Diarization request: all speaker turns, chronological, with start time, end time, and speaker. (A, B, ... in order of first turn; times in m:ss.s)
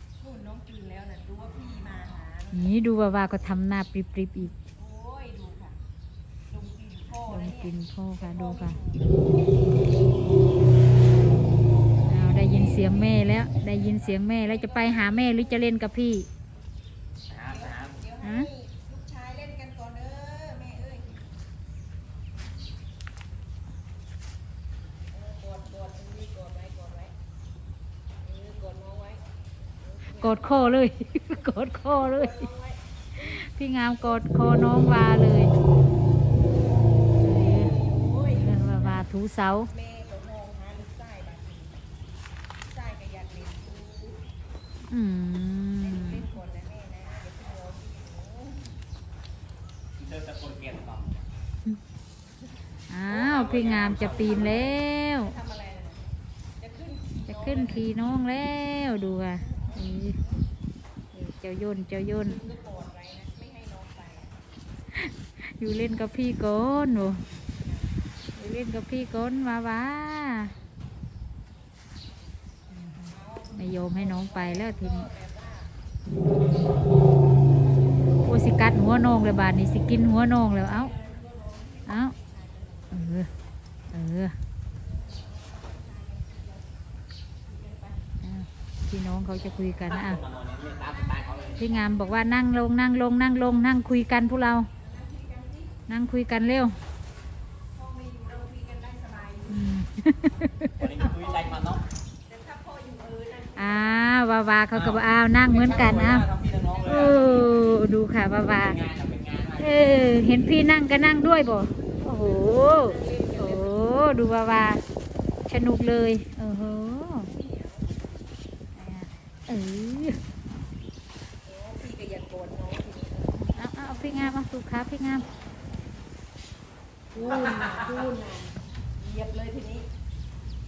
0:00.2-0:02.7 A
0:02.5-0:04.5 B
0:04.8-0:05.8 A
0:06.5-0:09.2 A
0:07.3-0:08.8 B
0:12.1-0:16.3 B
0:12.2-0:13.2 A
0:14.4-0:15.6 A
0:17.3-0:18.0 C
0:17.4-0:21.2 A
0:18.2-0:18.5 B
0:25.1-0:27.1 A
0:28.2-0:29.2 A
0:29.8-0:30.7 A
0:30.2-0:32.4 B
0:31.9-0:32.8 A
0:33.2-0:35.5 B
0:37.2-0:37.7 B
0:37.2-0:38.6 A
0:38.3-0:39.7 B
0:39.7-0:41.8 A
0:42.7-0:44.2 A
0:44.9-0:46.2 B
0:45.8-0:48.7 A
0:50.0-0:51.2 C
0:52.9-0:55.3 B
0:53.2-0:54.6 C
0:55.2-0:57.9 A
0:57.3-1:00.2 B
0:59.4-1:00.4 A
1:01.1-1:02.4 B
1:02.2-1:04.3 A
1:04.9-1:07.2 B
1:07.6-1:07.9 A
1:08.4-1:10.5 B
1:12.7-1:15.1 B
1:13.1-1:15.7 A
1:18.2-1:20.9 B
1:20.8-1:23.2 A
1:21.9-1:22.1 B
1:22.9-1:23.3 B
1:23.9-1:24.3 B
1:25.0-1:26.7 A
1:27.5-1:28.0 A
1:28.2-1:30.2 B
1:30.0-1:31.6 C
1:30.8-1:32.3 A
1:31.6-1:34.7 B
1:34.8-1:35.7 A
1:35.9-1:36.8 B
1:37.7-1:39.8 A
1:39.5-1:40.8 B
1:40.8-1:41.8 C
1:40.8-1:41.8 A
1:42.3-1:44.1 A
1:43.5-1:46.3 B
1:45.5-1:47.5 C
1:46.4-1:47.5 A
1:46.8-1:48.8 B
1:48.6-1:49.9 C
1:49.6-1:54.8 B
1:52.1-1:53.9 A
1:55.5-1:57.3 B
1:57.2-1:58.0 A
1:58.8-2:00.2 B
2:01.4-2:03.4 A
2:03.4-2:05.2 B
2:04.0-2:04.3 A
2:07.1-2:09.9 A